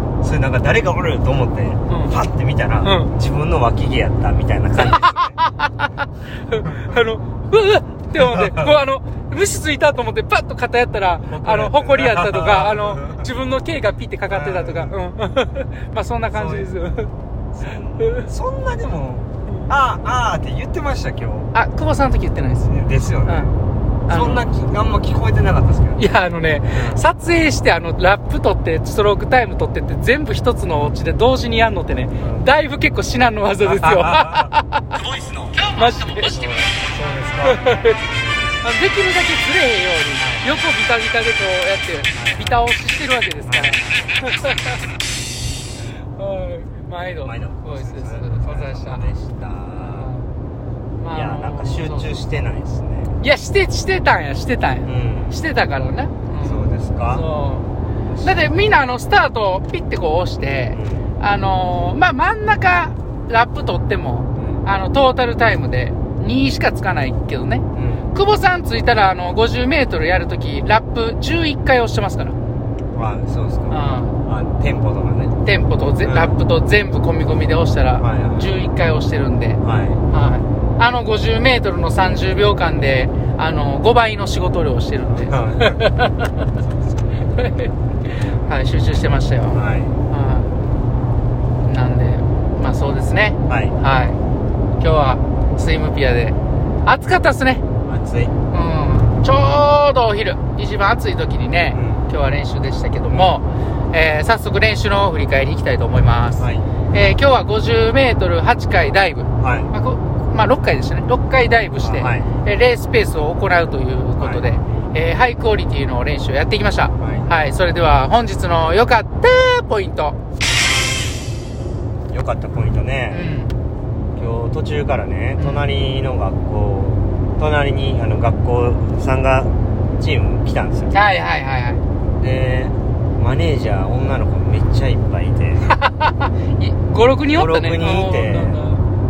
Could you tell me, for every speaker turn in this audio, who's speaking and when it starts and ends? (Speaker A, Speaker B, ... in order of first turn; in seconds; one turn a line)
Speaker A: 0.2-5.4
Speaker B: 1.9-2.1
Speaker B: 2.8-3.1
Speaker B: 4.8-17.1
Speaker A: 8.1-8.7
Speaker A: 11.3-13.3
Speaker A: 14.3-14.9
Speaker A: 16.3-16.7
Speaker A: 17.5-21.5
Speaker B: 18.0-18.3
Speaker B: 21.5-22.7
Speaker A: 22.6-23.5
Speaker B: 23.2-23.5
Speaker B: 24.1-24.4
Speaker A: 24.1-26.1
Speaker B: 25.9-35.0
Speaker A: 26.7-27.0
Speaker A: 32.2-32.5
Speaker A: 33.6-34.5
Speaker B: 35.6-36.4
Speaker A: 36.2-38.5
Speaker B: 37.5-38.0
Speaker B: 38.6-44.8
Speaker A: 40.2-40.5
Speaker A: 42.1-42.6
Speaker A: 43.5-44.5
Speaker B: 46.1-49.1
Speaker A: 47.2-50.1
Speaker B: 49.8-50.3
Speaker B: 51.0-52.1
Speaker A: 51.1-53.1
Speaker B: 53.2-57.7
Speaker A: 54.8-55.4
Speaker A: 56.4-57.2
Speaker A: 58.1-58.7
Speaker B: 58.2-72.3
Speaker A: 60.7-61.1
Speaker A: 64.4-64.6
Speaker A: 67.7-68.1
Speaker A: 72.9-75.3
Speaker B: 73.7-74.2
Speaker B: 75.4-86.5
Speaker A: 76.0-76.3
Speaker A: 78.0-78.5
Speaker A: 79.6-80.0
Speaker A: 85.1-85.8
Speaker B: 87.1-87.7
Speaker B: 88.3-90.5
Speaker A: 89.5-90.0
Speaker B: 91.7-94.2
Speaker A: 93.5-93.8
Speaker B: 94.8-97.6
Speaker A: 97.8-98.3
Speaker B: 98.5-120.2
Speaker A: 101.7-102.1
Speaker A: 106.4-106.7
Speaker A: 109.4-109.7
Speaker A: 111.8-112.3
Speaker A: 114.2-114.4
Speaker A: 117.0-117.3
Speaker A: 122.1-123.3
Speaker B: 123.1-123.5
Speaker A: 124.2-130.9
Speaker B: 130.9-131.8
Speaker A: 132.2-135.7
Speaker B: 135.7-138.8
Speaker A: 137.3-138.6